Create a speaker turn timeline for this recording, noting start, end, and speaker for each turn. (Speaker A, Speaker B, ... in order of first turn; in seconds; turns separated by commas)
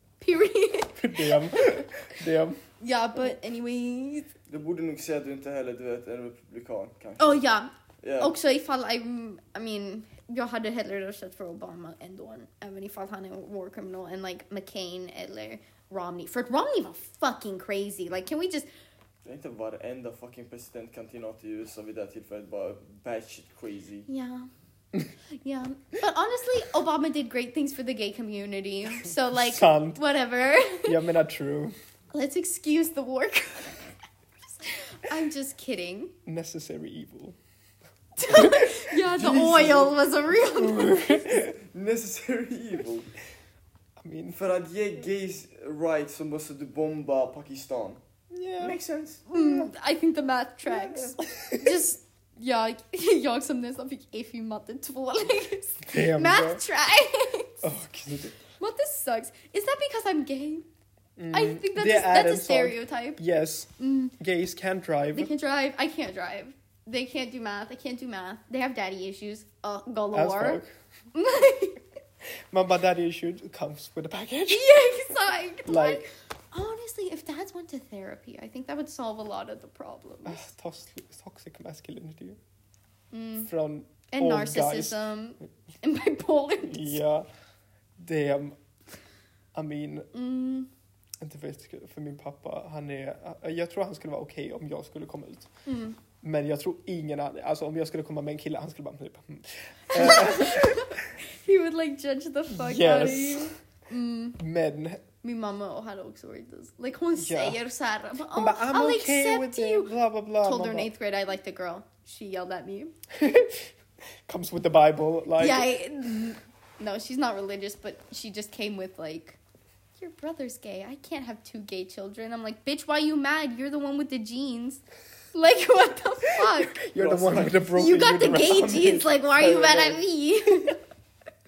Speaker A: 0.2-1.8, Speaker B: 1.0-2.6, Speaker A: 2.8-4.3, Speaker C: 4.5-7.4, Speaker A: 7.2-18.7, Speaker C: 8.0-8.3, Speaker C: 19.2-24.1, Speaker A: 24.1-24.5, Speaker A: 25.4-31.0, Speaker B: 29.3-30.0, Speaker B: 30.8-31.8, Speaker A: 32.1-33.8, Speaker A: 34.6-36.1, Speaker B: 36.3-37.4, Speaker A: 38.2-41.2, Speaker B: 38.3-38.8, Speaker C: 39.2-39.9, Speaker B: 40.5-41.5, Speaker C: 41.5-43.1, Speaker B: 44.0-44.4, Speaker C: 44.3-48.0, Speaker B: 48.3-48.8, Speaker C: 48.6-49.2, Speaker A: 49.3-57.6, Speaker B: 49.3-49.7, Speaker B: 55.9-56.6, Speaker B: 57.6-58.4, Speaker A: 58.6-60.7, Speaker B: 61.2-65.3, Speaker A: 61.3-63.2, Speaker A: 63.8-64.1, Speaker A: 65.1-70.6, Speaker B: 70.1-70.7, Speaker A: 71.1-71.8, Speaker B: 72.5-74.7, Speaker A: 74.5-80.5, Speaker B: 75.7-76.0, Speaker B: 80.2-82.4, Speaker A: 83.1-83.5, Speaker B: 83.4-85.0, Speaker A: 84.1-87.0, Speaker B: 86.7-87.3, Speaker B: 88.0-88.6, Speaker B: 89.5-90.1, Speaker A: 90.1-90.7, Speaker B: 91.2-95.5, Speaker A: 95.7-96.0, Speaker B: 96.2-101.0, Speaker A: 99.9-104.4, Speaker B: 102.5-103.5, Speaker B: 104.4-105.0, Speaker A: 105.2-112.9, Speaker B: 107.2-107.6, Speaker B: 108.3-110.9, Speaker B: 113.1-113.7, Speaker B: 114.3-115.7, Speaker A: 115.4-119.4, Speaker A: 120.0-124.8, Speaker A: 125.3-126.8, Speaker B: 126.7-129.1, Speaker C: 127.0-127.6, Speaker A: 127.7-130.8, Speaker C: 129.4-130.0